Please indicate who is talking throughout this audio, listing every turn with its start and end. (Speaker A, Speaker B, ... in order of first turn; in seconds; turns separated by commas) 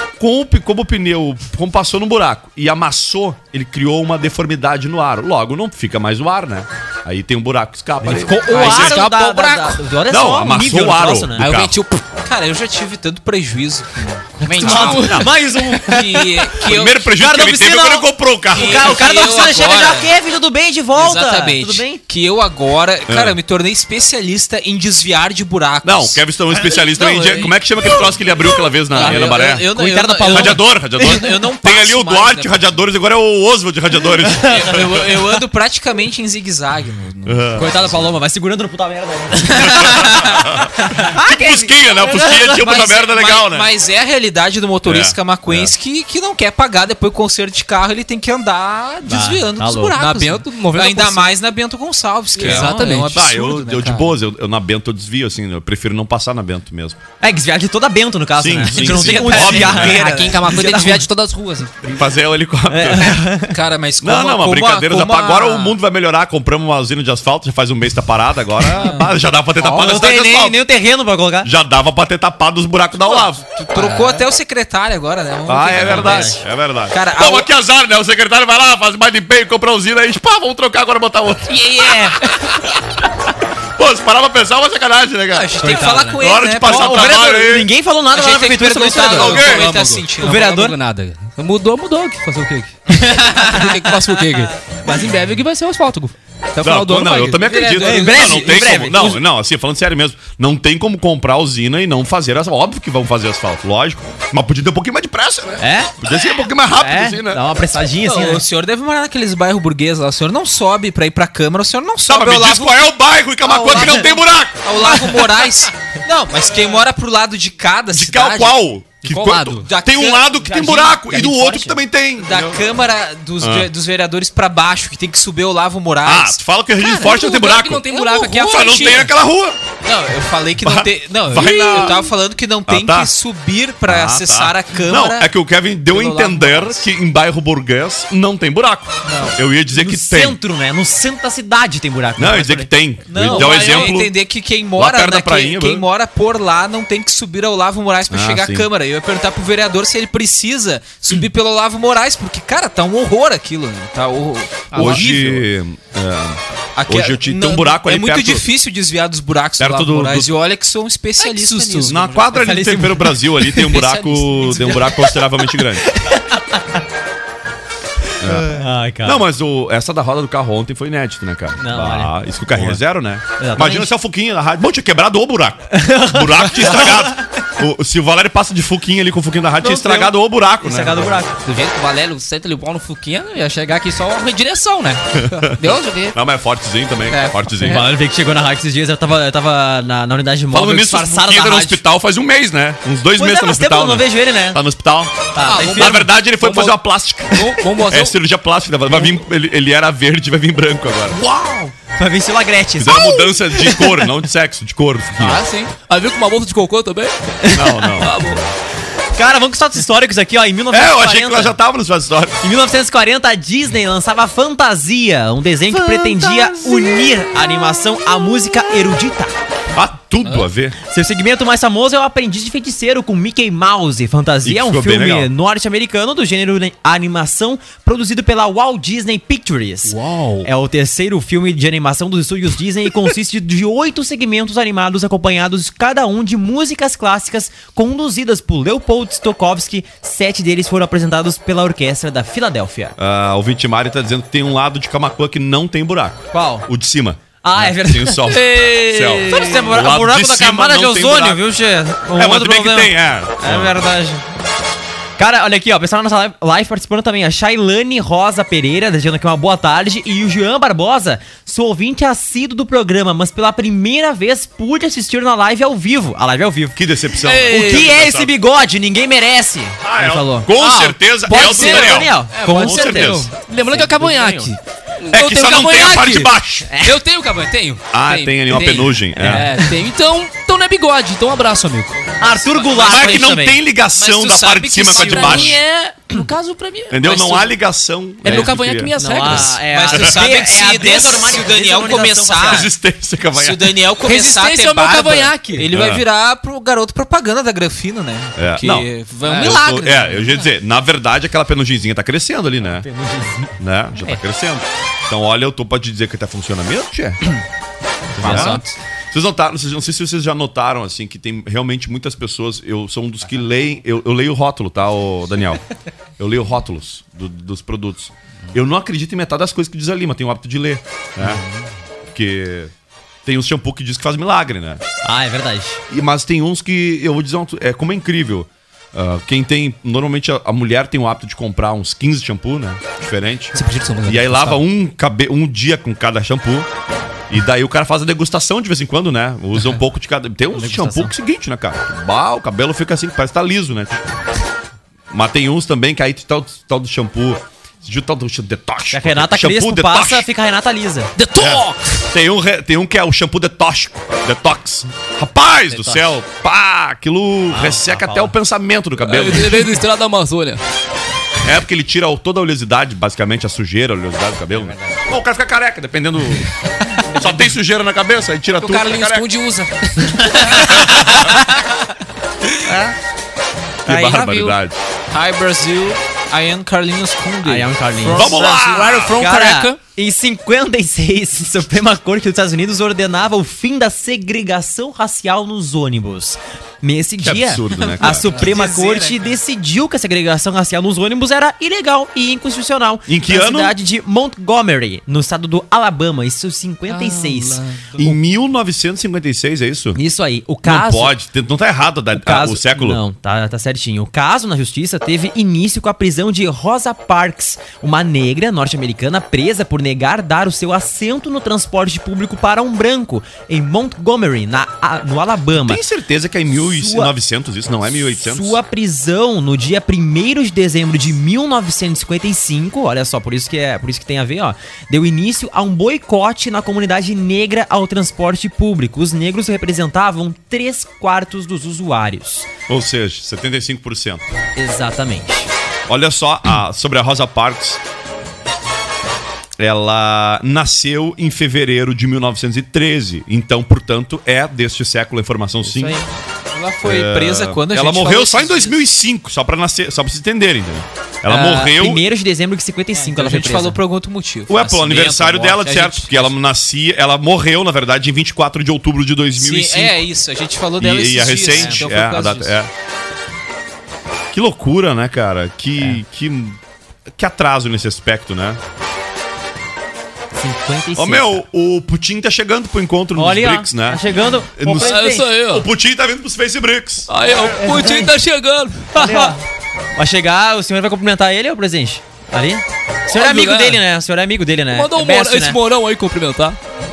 Speaker A: 0.2-9.0, Speaker B: 8.0-11.5, Speaker C: 8.5-9.8, Speaker A: 10.1-11.8, Speaker C: 11.4-12.0, Speaker D: 12.3-14.2, Speaker B: 14.4-16.3, Speaker C: 14.4-15.4, Speaker A: 14.6-15.3, Speaker D: 15.8-17.1, Speaker A: 16.6-19.1, Speaker B: 17.1-22.0, Speaker D: 18.6-20.1, Speaker D: 20.9-28.0, Speaker A: 23.1-23.4, Speaker A: 25.8-29.7, Speaker D: 28.9-32.8, Speaker B: 28.9-31.2, Speaker A: 30.2-35.1, Speaker D: 34.5-38.0, Speaker A: 37.3-37.8, Speaker B: 37.5-40.3, Speaker A: 39.6-43.7, Speaker D: 39.7-40.3, Speaker B: 40.8-42.5, Speaker D: 42.1-54.2, Speaker A: 44.9-45.7, Speaker B: 49.1-49.9, Speaker C: 50.0-51.4, Speaker C: 52.4-53.2, Speaker A: 52.4-57.0, Speaker B: 57.2-61.1, Speaker A: 58.4-60.0, Speaker C: 58.7-61.9, Speaker D: 59.2-60.5, Speaker A: 61.9-63.2, Speaker B: 62.7-63.5, Speaker D: 63.4-65.8, Speaker A: 64.0-70.6, Speaker D: 68.8-69.1, Speaker B: 69.6-71.5, Speaker A: 71.4-73.4, Speaker D: 73.1-77.5, Speaker C: 73.8-74.1, Speaker A: 75.5-82.8, Speaker B: 75.8-76.4, Speaker D: 81.8-82.2, Speaker A: 83.8-87.7, Speaker D: 85.3-87.3, Speaker B: 85.6-89.4, Speaker C: 85.7-86.1, Speaker D: 88.1-90.4, Speaker A: 89.2-89.7, Speaker C: 89.3-98.3, Speaker B: 90.2-90.8, Speaker A: 96.6-107.4, Speaker D: 97.5-98.7, Speaker B: 97.8-99.2, Speaker B: 105.6-105.9, Speaker B: 106.8-108.4, Speaker D: 108.0-112.9, Speaker A: 112.1-114.6, Speaker D: 113.5-118.6, Speaker A: 117.9-122.6, Speaker C: 119.0-119.7, Speaker D: 119.7-120.3, Speaker B: 120.4-121.8, Speaker D: 122.2-126.4, Speaker A: 123.4-123.7, Speaker A: 126.0-127.9, Speaker C: 126.8-129.1, Speaker D: 127.9-129.1, Speaker A: 128.4-129.6, Speaker D: 129.8-135.3, Speaker A: 130.6-132.1, Speaker A: 132.7-133.1, Speaker A: 133.9-140.4, Speaker D: 135.9-136.8, Speaker D: 139.1-139.3, Speaker B: 139.7-142.7, Speaker A: 142.2-144.1, Speaker D: 143.1-155.4, Speaker C: 143.3-143.9, Speaker A: 144.8-145.8, Speaker A: 148.1-148.7, Speaker C: 154.7-155.4, Speaker A: 154.7-158.4, Speaker D: 156.8-162.0, Speaker A: 159.6-160.3, Speaker C: 161.2-162.3, Speaker A: 161.9-165.9, Speaker B: 162.3-163.2, Speaker C: 163.7-164.8, Speaker D: 164.4-164.9, Speaker B: 165.9-166.8, Speaker A: 168.2-181.2, Speaker B: 168.2-169.2, Speaker B: 171.6-172.8, Speaker B: 173.4-173.9, Speaker B: 175.7-177.1, Speaker B: 179.6-181.4, Speaker C: 181.4-186.2, Speaker A: 185.2-187.8, Speaker C: 187.1-187.7, Speaker B: 187.6-191.8, Speaker A: 190.5-201.2, Speaker B: 193.2-194.6, Speaker B: 195.3-196.1, Speaker C: 195.4-196.8, Speaker C: 197.3-198.2, Speaker B: 201.1-204.1, Speaker A: 202.8-205.4, Speaker C: 205.2-207.1, Speaker B: 207.4-208.0, Speaker A: 207.5-208.4, Speaker C: 208.0-208.4, Speaker B: 209.2-211.6, Speaker A: 210.7-212.4, Speaker B: 212.4-219.3, Speaker C: 215.9-216.6, Speaker A: 219.7-220.8, Speaker B: 220.8-242.9, Speaker A: 224.4-225.3, Speaker C: 229.9-230.5, Speaker A: 243.0-251.4, Speaker B: 246.3-246.7, Speaker B: 247.4-254.2, Speaker C: 248.3-249.2, Speaker A: 252.1-253.8, Speaker B: 255.2-266.8, Speaker A: 266.8-268.4, Speaker C: 267.2-267.9, Speaker B: 267.5-274.5, Speaker A: 269.8-273.3, Speaker C: 271.3-282.0, Speaker A: 275.1-276.7, Speaker B: 275.8-277.0, Speaker A: 277.9-279.5, Speaker B: 279.2-279.7, Speaker B: 282.2-283.6, Speaker A: 282.8-285.6, Speaker D: 282.9-283.2, Speaker D: 284.0-285.6, Speaker C: 284.9-287.5, Speaker A: 286.9-290.0, Speaker C: 288.2-289.7, Speaker B: 289.0-292.7, Speaker D: 289.7-292.7, Speaker A: 292.5-293.7, Speaker D: 293.3-300.5, Speaker C: 294.1-295.7, Speaker A: 295.7-296.0, Speaker A: 298.4-302.9, Speaker C: 299.3-299.8, Speaker B: 302.8-303.6, Speaker A: 303.6-307.3, Speaker B: 308.2-308.7, Speaker A: 308.2-315.6, Speaker C: 308.2-308.6, Speaker A: 316.2-321.4, Speaker C: 321.2-321.6, Speaker A: 322.1-322.7, Speaker A: 323.2-324.8, Speaker B: 325.0-325.8, Speaker A: 325.9-336.7, Speaker C: 333.6-334.6, Speaker A: 337.3-344.0, Speaker B: 340.5-341.1, Speaker A: 345.1-350.3, Speaker B: 348.9-351.1, Speaker C: 351.2-352.0, Speaker A: 351.4-359.7, Speaker C: 355.7-356.1, Speaker B: 357.5-358.3, Speaker C: 359.0-360.6, Speaker A: 361.4-366.5, Speaker A: 367.1-369.3, Speaker C: 368.6-371.2, Speaker B: 370.3-370.6, Speaker A: 373.9-374.8, Speaker C: 373.9-374.6, Speaker D: 375.1-378.4, Speaker B: 377.4-378.3, Speaker C: 378.1-379.8, Speaker A: 378.2-379.2, Speaker B: 379.2-397.6, Speaker A: 387.2-388.4, Speaker D: 387.7-389.4, Speaker C: 388.4-388.8, Speaker A: 393.1-393.8, Speaker C: 396.9-398.1, Speaker A: 398.0-400.0, Speaker B: 399.9-401.1, Speaker A: 400.6-403.0, Speaker B: 402.1-415.8, Speaker A: 415.6-418.6, Speaker B: 416.6-417.1, Speaker B: 418.2-432.5, Speaker A: 432.7-434.2, Speaker B: 434.6-435.5, Speaker A: 435.9-437.8, Speaker A: 439.6-446.0, Speaker B: 445.7-446.0, Speaker D: 446.5-448.8, Speaker A: 446.8-452.0, Speaker B: 451.3-453.8, Speaker D: 453.0-456.3, Speaker A: 454.5-460.0, Speaker D: 459.4-462.6, Speaker A: 460.8-462.7, Speaker B: 461.5-461.9, Speaker A: 464.3-466.6, Speaker A: 467.1-468.6, Speaker B: 470.3-471.4, Speaker A: 470.9-474.0, Speaker B: 473.1-475.3, Speaker A: 474.6-477.1, Speaker C: 474.7-475.7, Speaker C: 477.1-479.4, Speaker B: 477.6-478.1, Speaker B: 478.9-479.4, Speaker B: 480.0-485.6, Speaker C: 483.1-483.8, Speaker C: 484.7-486.6